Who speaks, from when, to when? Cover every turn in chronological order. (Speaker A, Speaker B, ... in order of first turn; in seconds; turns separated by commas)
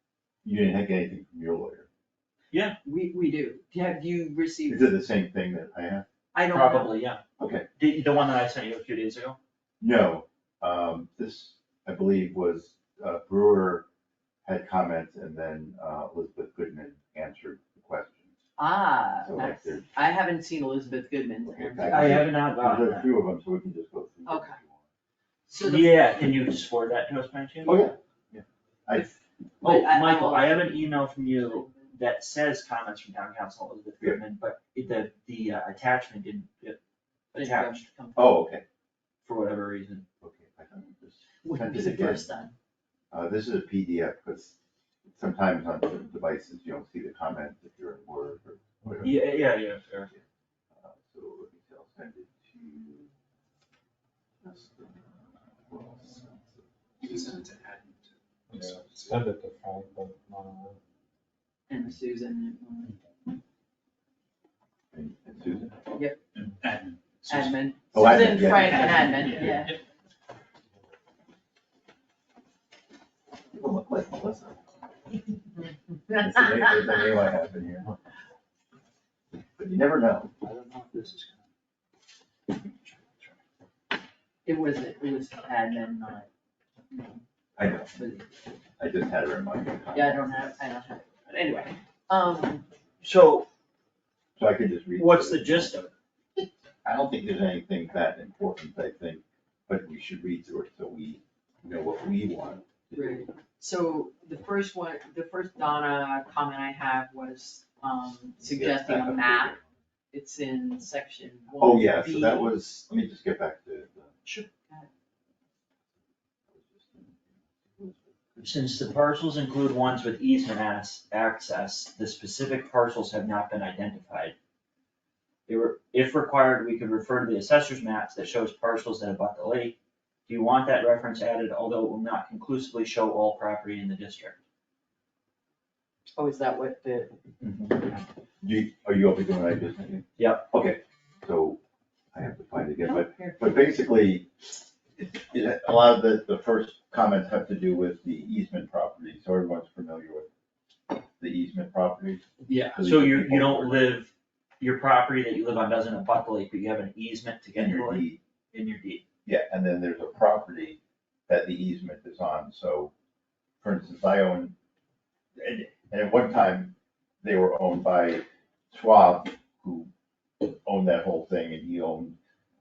Speaker A: 0.4-1.9, Speaker B: 2.8-4.9, Speaker A: 4.7-6.0, Speaker B: 6.3-6.9, Speaker C: 6.5-7.2, Speaker A: 7.4-7.7, Speaker C: 7.8-9.4, Speaker A: 9.8-13.8, Speaker A: 14.4-18.3, Speaker B: 18.6-22.3, Speaker A: 19.2-19.8, Speaker A: 21.4-24.8, Speaker C: 21.8-23.1, Speaker B: 24.2-24.6, Speaker B: 25.5-26.1, Speaker C: 25.6-27.8, Speaker A: 27.6-29.1, Speaker B: 28.9-30.8, Speaker C: 29.6-36.8, Speaker B: 31.4-31.9, Speaker C: 37.3-37.9, Speaker B: 37.4-38.4, Speaker A: 38.1-38.6, Speaker C: 39.2-40.0, Speaker A: 40.2-42.3, Speaker B: 41.4-42.5, Speaker A: 43.1-44.5, Speaker A: 45.1-49.5, Speaker C: 49.0-50.1, Speaker A: 50.7-53.1, Speaker A: 54.4-55.1, Speaker A: 55.7-56.6, Speaker D: 57.0-59.2, Speaker E: 58.5-60.8, Speaker B: 61.7-63.0, Speaker A: 64.9-65.8, Speaker D: 66.3-67.7, Speaker B: 67.3-69.8, Speaker A: 67.9-69.5, Speaker D: 68.5-69.7, Speaker A: 73.5-74.6, Speaker B: 76.1-77.0, Speaker A: 76.1-77.9, Speaker A: 79.6-80.3, Speaker C: 80.4-81.4, Speaker C: 82.5-83.3, Speaker B: 84.4-86.3, Speaker A: 87.5-88.0, Speaker B: 87.9-88.3, Speaker A: 88.8-90.5, Speaker B: 89.9-92.7, Speaker C: 93.0-93.5, Speaker A: 94.3-95.7, Speaker C: 95.0-95.9, Speaker A: 96.8-103.2, Speaker B: 102.9-109.5, Speaker A: 108.4-109.6, Speaker B: 110.1-112.5, Speaker A: 111.6-114.1, Speaker B: 114.2-114.9, Speaker A: 116.5-118.5, Speaker C: 118.4-124.3, Speaker C: 125.5-129.7, Speaker C: 130.3-134.4, Speaker B: 136.2-137.1, Speaker C: 137.4-137.8, Speaker A: 138.4-141.6, Speaker C: 140.2-140.5, Speaker A: 142.1-144.3, Speaker B: 142.8-143.7, Speaker A: 144.9-150.3, Speaker A: 151.1-153.9, Speaker D: 152.5-152.8, Speaker C: 152.8-159.0, Speaker A: 157.5-158.2, Speaker A: 159.2-162.9, Speaker A: 163.6-164.5, Speaker A: 165.3-169.9, Speaker A: 170.4-172.2